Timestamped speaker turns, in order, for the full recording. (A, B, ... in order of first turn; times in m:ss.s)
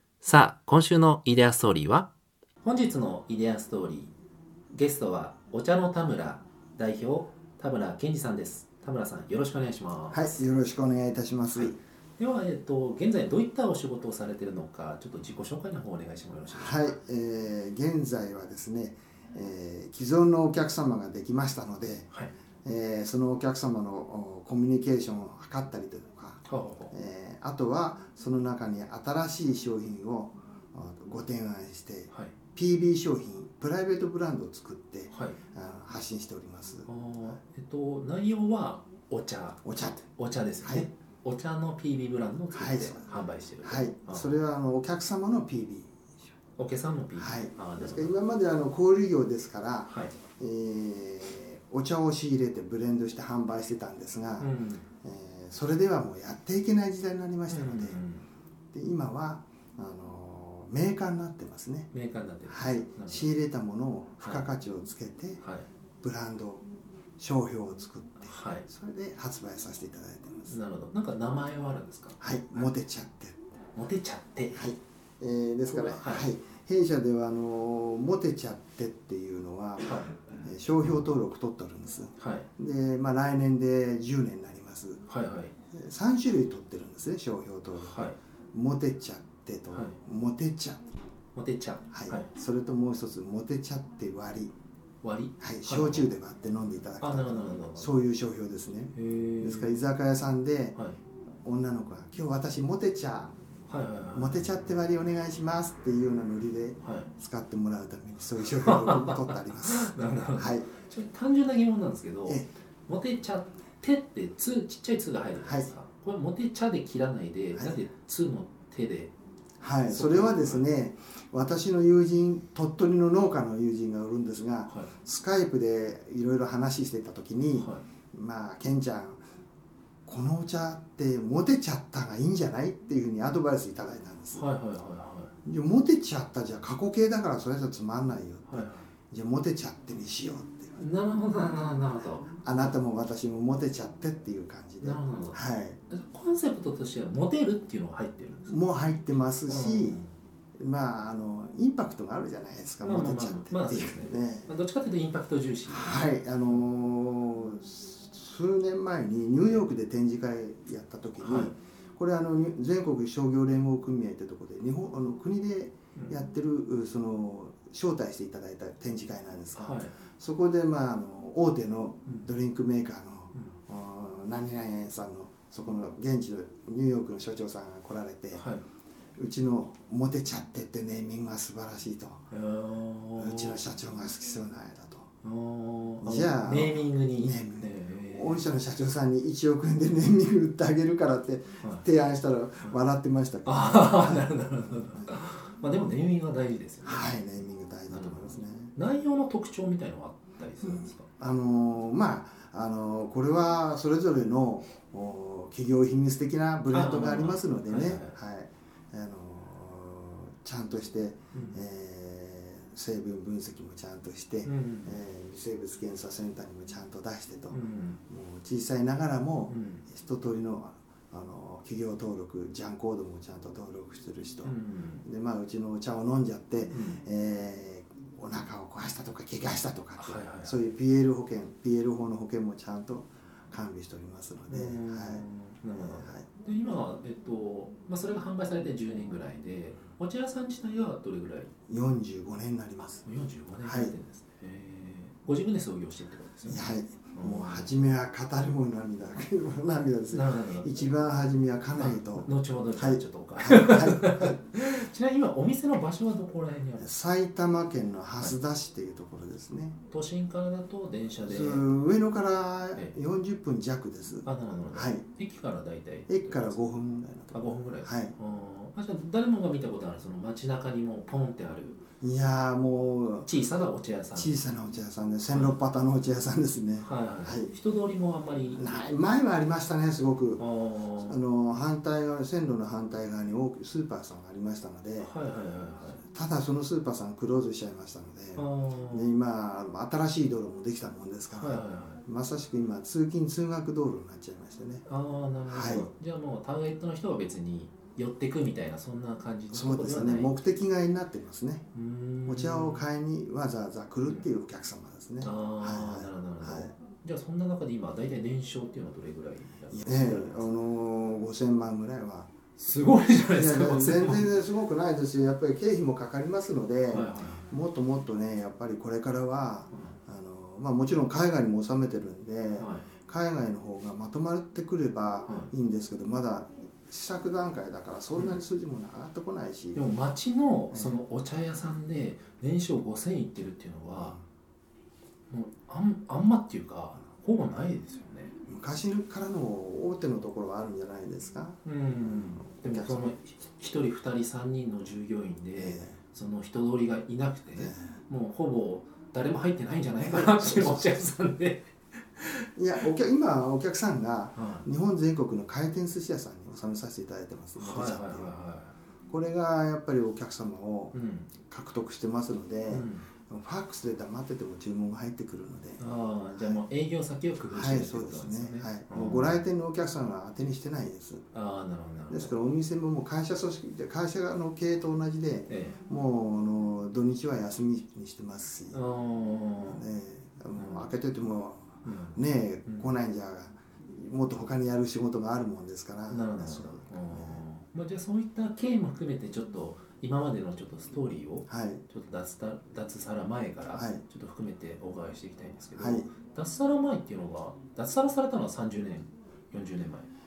0:00.2-0:02.1 A
0:02.6-0:04.1 A
0:04.7-0:10.4 A
0:10.1-0:11.8 B
0:11.5-0:17.0 A
0:16.5-0:22.1 B
0:22.6-0:36.9 B
0:26.4-0:26.9 A
0:35.1-0:35.4 A
0:36.9-0:44.4 A
0:39.6-0:40.1 B
0:40.6-0:40.9 B
0:42.5-0:43.1 B
0:43.6-0:46.1 B
0:46.6-0:48.2 A
0:47.2-0:54.5 B
0:49.9-0:50.1 A
0:54.4-0:54.8 A
0:55.0-0:58.0 B
0:57.5-0:58.3 A
0:58.7-1:01.9 B
1:01.9-1:03.3 A
1:02.5-1:05.4 B
1:05.4-1:05.6 A
1:06.0-1:06.6 B
1:07.2-1:10.6 B
1:08.2-1:08.7 A
1:10.5-1:12.7 A
1:12.2-1:13.4 B
1:13.7-1:14.6 A
1:14.5-1:25.0 B
1:15.7-1:16.3 A
1:19.8-1:20.2 A
1:22.2-1:22.5 A
1:25.1-1:25.5 A
1:25.7-1:30.8 B
1:27.8-1:28.2 A
1:29.7-1:30.0 A
1:31.3-1:32.3 A
1:31.9-1:34.5 B
1:35.0-1:36.1 A
1:35.4-1:40.8 B
1:37.0-1:38.0 A
1:38.9-1:39.8 A
1:41.4-1:43.4 B
1:43.7-1:44.6 A
1:44.1-1:50.7 B
1:46.8-1:47.1 A
1:48.6-1:59.1 A
1:55.4-1:55.7 B
1:57.5-1:57.8 B
1:59.6-2:09.2 B
1:59.9-2:00.6 A
2:04.7-2:04.9 A
2:07.6-2:07.8 A
2:10.0-2:14.4 B
2:14.3-2:15.3 A
2:15.4-2:20.8 B
2:18.5-2:18.9 A
2:20.8-2:22.4 A
2:22.4-2:25.8 B
2:24.8-2:28.6 A
2:28.5-2:30.0 B
2:29.5-2:30.1 A
2:30.6-2:34.5 B
2:32.8-2:36.6 A
2:35.7-2:58.4 B
2:41.2-2:41.5 A
2:49.6-2:49.9 A
2:58.3-2:58.6 A
2:59.2-3:02.2 B
3:02.3-3:03.6 A
3:03.2-3:05.1 B
3:05.2-3:08.5 A
3:06.0-3:15.1 B
3:11.6-3:11.8 A
3:13.4-3:17.1 A
3:16.8-3:18.7 B
3:17.9-3:21.0 A
3:20.6-3:56.2 B
3:26.7-3:28.2 A
3:31.3-3:31.6 A
3:34.4-3:35.0 A
3:37.5-3:38.0 A
3:39.5-3:39.9 A
3:44.4-3:45.0 A
3:46.7-3:47.0 A
3:50.0-3:50.6 A
3:54.5-4:01.5 A
4:01.7-4:03.0 B
4:03.0-4:07.7 A
4:03.6-4:03.9 B
4:06.4-4:14.4 B
4:10.1-4:10.7 A
4:11.7-4:16.9 A
4:16.8-4:19.8 B
4:19.9-4:21.7 A
4:21.2-4:25.0 B
4:24.2-4:26.6 A
4:26.1-4:28.1 B
4:27.3-4:31.8 A
4:32.0-4:33.3 B
4:33.2-4:34.3 A
4:34.1-4:37.5 B
4:35.3-4:35.6 A
4:36.8-4:38.6 A
4:38.5-4:40.4 B
4:40.4-4:41.2 A
4:41.0-4:45.1 B
4:45.0-4:46.0 A
4:46.0-4:54.8 B
4:48.4-4:49.1 A
4:51.3-4:52.0 A
4:54.9-5:00.3 A
4:55.4-4:55.9 B
4:59.5-5:01.6 B
5:01.7-5:02.8 A
5:02.2-5:06.7 B
5:05.2-5:10.5 A
5:09.7-5:12.3 B
5:12.6-5:14.4 A
5:13.3-5:29.8 B
5:16.9-5:17.5 A
5:22.6-5:22.8 A
5:25.2-5:25.5 A
5:29.7-5:34.2 A
5:33.9-5:34.2 B
5:35.3-5:38.3 A
5:38.4-5:43.1 B
5:41.6-5:52.5 A
5:45.5-5:46.0 B
5:47.5-5:48.0 B
5:50.0-5:51.0 B
5:52.6-5:58.3 B
5:54.3-5:54.7 A
5:57.6-5:58.7 A
5:59.1-6:00.9 B
6:00.9-6:01.3 A
6:01.5-6:06.6 B
6:02.7-6:03.1 A
6:05.8-6:09.4 A
6:07.5-6:11.2 B
6:11.3-6:12.3 A
6:12.1-6:18.8 B
6:15.5-6:15.8 A
6:18.7-6:19.8 A
6:19.6-6:27.4 B
6:20.5-6:20.9 A
6:21.8-6:22.9 A
6:26.1-6:40.1 A
6:31.5-6:31.8 B
6:33.7-6:34.0 B
6:35.8-6:36.1 B